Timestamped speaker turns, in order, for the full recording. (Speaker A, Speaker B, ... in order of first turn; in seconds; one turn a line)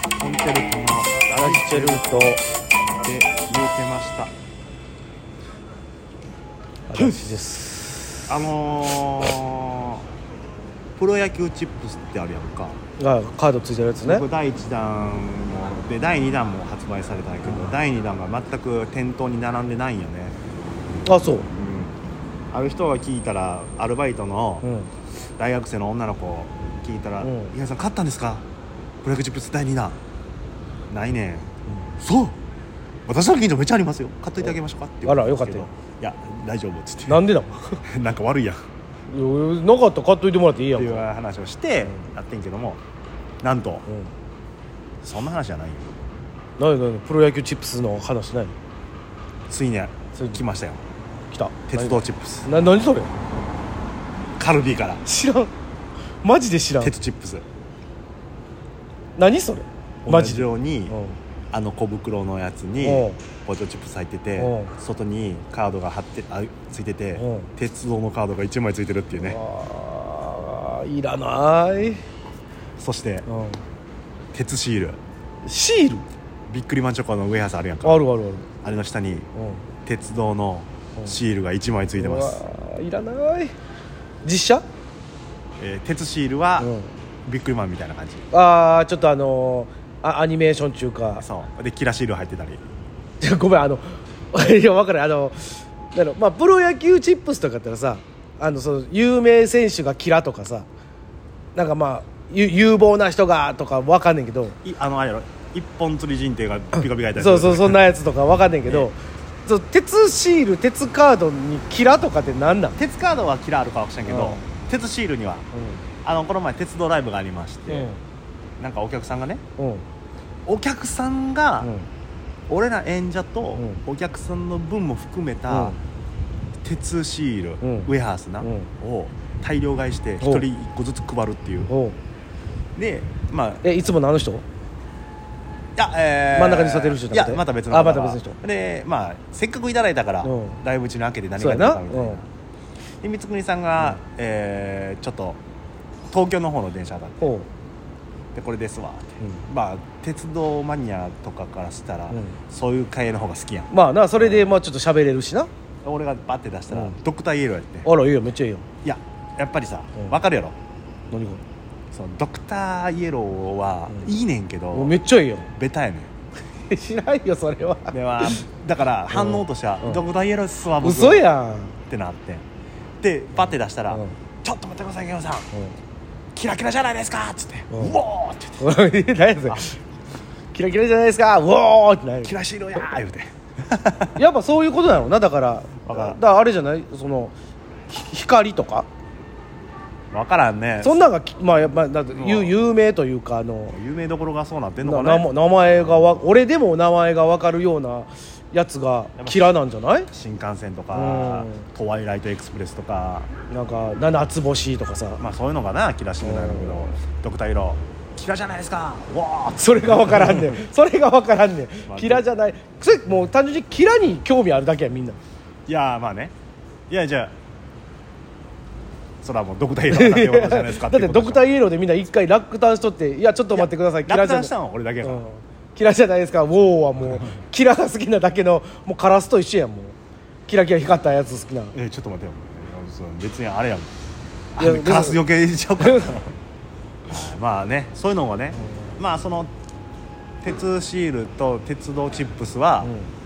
Speaker A: 0.2-2.4
Speaker B: 1.4-2.4
Speaker A: 3.0-4.3
Speaker B: 6.9-8.3
Speaker A: 7.0-7.2
Speaker A: 8.3-10.1
Speaker A: 11.0-12.8
Speaker B: 13.0-14.2
Speaker A: 14.0-20.4
Speaker B: 17.5-17.7
Speaker B: 21.1-21.5
Speaker A: 21.5-22.0
Speaker A: 22.5-24.7
Speaker B: 24.6-24.9
Speaker A: 25.4-28.4
Speaker B: 27.2-27.5
Speaker A: 29.0-30.0
Speaker A: 30.9-32.4
Speaker A: 33.1-37.3
Speaker B: 35.1-35.7
Speaker B: 37.1-37.8
Speaker A: 37.8-38.6
Speaker B: 39.1-41.0
Speaker A: 40.7-42.8
Speaker A: 43.4-43.9
Speaker A: 45.0-45.9
Speaker B: 46.6-48.5
Speaker A: 49.5-50.8
Speaker B: 50.1-50.4
Speaker B: 51.3-53.1
Speaker A: 51.7-52.5
Speaker A: 54.4-55.0
Speaker B: 55.0-55.5
Speaker B: 56.2-57.0
Speaker A: 56.8-57.5
Speaker B: 59.2-61.2
Speaker A: 60.0-61.0
Speaker A: 61.5-69.4
Speaker B: 62.8-63.2
Speaker B: 64.4-64.7
Speaker B: 67.2-67.5
Speaker B: 69.2-72.0
Speaker A: 72.8-73.3
Speaker B: 73.3-73.6
Speaker A: 74.3-75.0
Speaker B: 75.5-76.0
Speaker A: 76.5-78.0
Speaker B: 77.8-78.5
Speaker A: 78.6-79.3
Speaker B: 79.4-79.7
Speaker A: 79.8-82.4
Speaker B: 82.0-83.5
Speaker B: 84.2-84.6
Speaker A: 85.6-86.7
Speaker B: 86.6-86.9
Speaker A: 87.3-88.3
Speaker B: 88.3-91.2
Speaker A: 91.2-92.6
Speaker B: 93.2-100.7
Speaker B: 101.6-104.6
Speaker A: 104.6-107.8
Speaker B: 107.2-112.8
Speaker A: 112.8-115.5
Speaker B: 114.1-114.4
Speaker B: 115.5-115.8
Speaker A: 116.0-117.9
Speaker B: 117.7-118.0
Speaker A: 118.6-119.4
Speaker B: 119.6-119.8
Speaker A: 120.5-121.7
Speaker B: 121.6-121.9
Speaker A: 122.5-125.8
Speaker B: 125.5-125.8
Speaker A: 126.6-131.7
Speaker B: 127.6-127.9
Speaker B: 128.4-128.7
Speaker B: 130.2-130.5
Speaker B: 131.7-132.0
Speaker A: 132.8-133.7
Speaker B: 133.6-134.4
Speaker A: 135.8-142.3
Speaker B: 136.3-138.4
Speaker B: 140.2-140.6
Speaker B: 141.4-142.2
Speaker A: 143.0-145.4
Speaker A: 146.1-147.3
Speaker B: 147.2-147.5
Speaker A: 148.3-154.5
Speaker B: 152.1-152.4
Speaker B: 153.7-155.5
Speaker A: 155.8-157.9
Speaker B: 156.7-157.0
Speaker B: 157.8-158.7
Speaker A: 158.8-160.6
Speaker B: 161.1-161.4
Speaker A: 161.9-165.0
Speaker B: 164.7-165.5
Speaker A: 165.6-166.1
Speaker B: 166.7-168.4
Speaker A: 167.9-171.3
Speaker B: 169.1-170.0
Speaker B: 170.8-171.8
Speaker A: 171.9-172.4
Speaker A: 173.0-175.5
Speaker A: 176.3-178.7
Speaker B: 177.7-178.0
Speaker B: 178.6-179.8
Speaker B: 180.5-182.3
Speaker A: 182.2-184.2
Speaker B: 184.2-187.3
Speaker A: 185.9-186.2
Speaker B: 187.9-188.9
Speaker A: 190.1-191.0
Speaker B: 190.8-193.8
Speaker A: 192.1-192.6
Speaker A: 193.7-196.3
Speaker B: 194.8-200.1
Speaker A: 199.2-199.6
Speaker A: 200.1-203.3
Speaker B: 200.9-201.6
Speaker B: 203.5-205.2
Speaker A: 205.2-210.6
Speaker B: 206.2-207.0
Speaker B: 209.6-215.2
Speaker A: 211.9-212.2
Speaker A: 215.7-216.3
Speaker A: 216.9-217.3
Speaker A: 219.2-221.5
Speaker B: 219.9-224.5
Speaker A: 223.5-225.2
Speaker B: 225.0-230.0
Speaker A: 227.1-227.3
Speaker B: 230.5-231.8
Speaker A: 231.7-233.9
Speaker A: 234.6-236.3
Speaker B: 234.6-235.2
Speaker B: 235.8-236.2
Speaker A: 237.1-239.5
Speaker A: 240.4-242.9
Speaker B: 242.8-243.1